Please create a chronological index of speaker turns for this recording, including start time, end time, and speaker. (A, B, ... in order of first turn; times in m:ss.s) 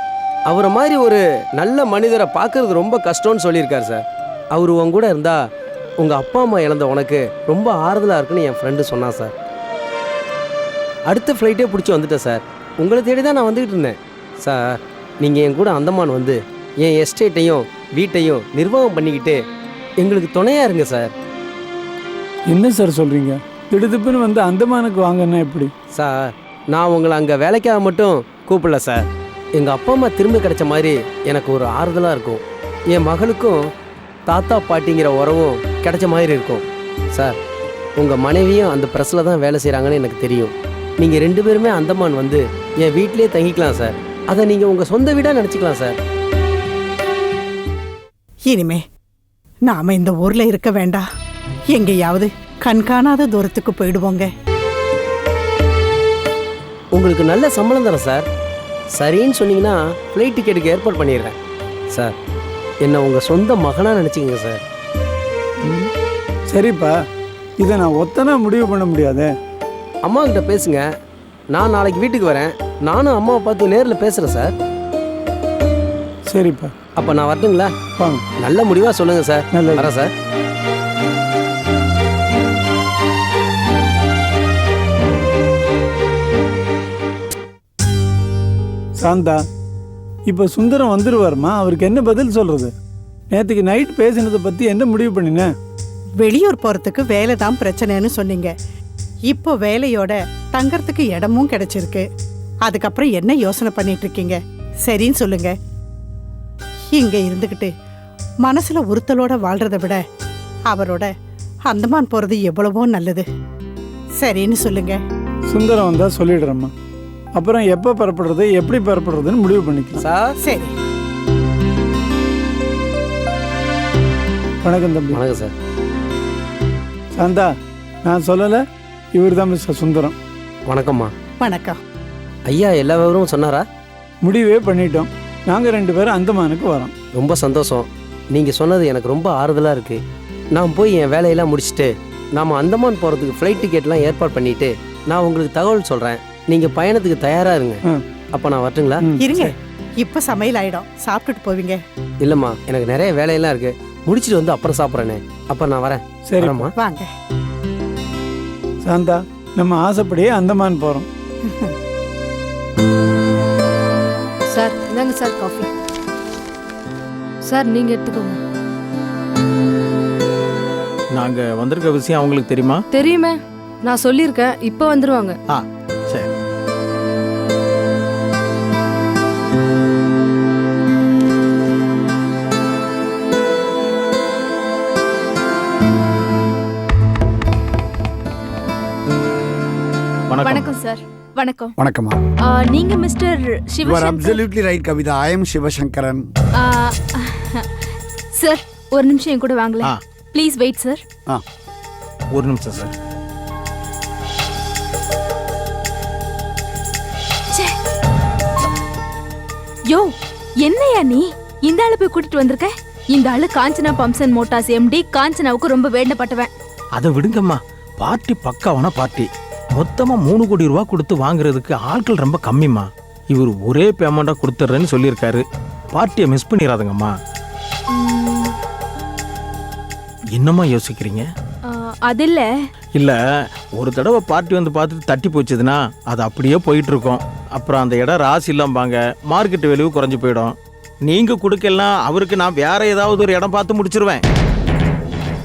0:00.5-0:05.4 A
0:06.0-0:09.3 A
0:11.1-0:19.4 A
0:20.0-0:21.1 A
0:22.5-0:25.7 B
0:26.0-0:33.6 A
0:34.3-0:37.4 A
0:38.0-0:46.0 A
0:48.5-0:48.8 C
0:49.6-0:51.1 C
0:51.7-0:54.3 C
0:56.9-0:58.2 A
0:58.9-1:01.4 A
1:02.8-1:04.6 A
1:06.5-1:07.0 B
1:07.6-1:09.3 B
1:10.0-1:10.9 A
1:11.5-1:14.5 A
1:16.3-1:16.7 B
1:17.0-1:17.7 A
1:18.4-1:20.1 A
1:19.5-1:19.9 B
1:29.0-1:29.4 B
1:30.3-1:32.7 B
1:33.3-1:35.5 B
1:36.2-1:38.5 C
1:39.3-1:42.0 C
1:42.6-1:45.5 C
1:46.9-1:47.7 C
1:48.4-1:50.0 C
1:50.7-1:51.1 C
1:51.7-1:53.2 C
1:54.2-1:55.0 C
1:55.5-1:56.7 B
1:57.4-2:00.0 B
2:00.0-2:00.3 A
2:00.4-2:00.7 C
2:04.6-2:05.2 B
2:05.1-2:05.5 A
2:07.2-2:07.5 B
2:08.0-2:08.6 B
2:09.1-2:10.2 B
2:10.7-2:11.1 A
2:11.4-2:11.8 C
2:12.5-2:13.6 A
2:14.2-2:16.9 B
2:17.2-2:20.0 A
2:20.5-2:29.0 A
2:29.0-2:29.5 B
2:29.2-2:31.8 C
2:32.2-2:36.7 A
2:36.3-2:36.6 B
2:36.8-2:37.1 C
2:38.8-2:41.1 B
2:44.5-2:45.7 D
2:47.5-2:48.4 D
2:51.1-2:52.8 E
2:53.0-2:55.3 D
2:55.5-2:56.3 E
3:10.3-3:10.7 E
3:10.4-3:11.7 F
3:11.8-3:12.2 G
3:12.5-3:14.4 F
3:13.8-3:16.2 G
3:16.6-3:17.6 F
3:18.4-3:21.0 F
3:22.3-3:22.9 E
3:30.6-3:36.5 F
3:37.0-3:47.2 E
3:47.9-3:48.5 F
3:50.3-3:51.3 E
3:51.8-3:52.5 F
3:53.8-4:04.2 E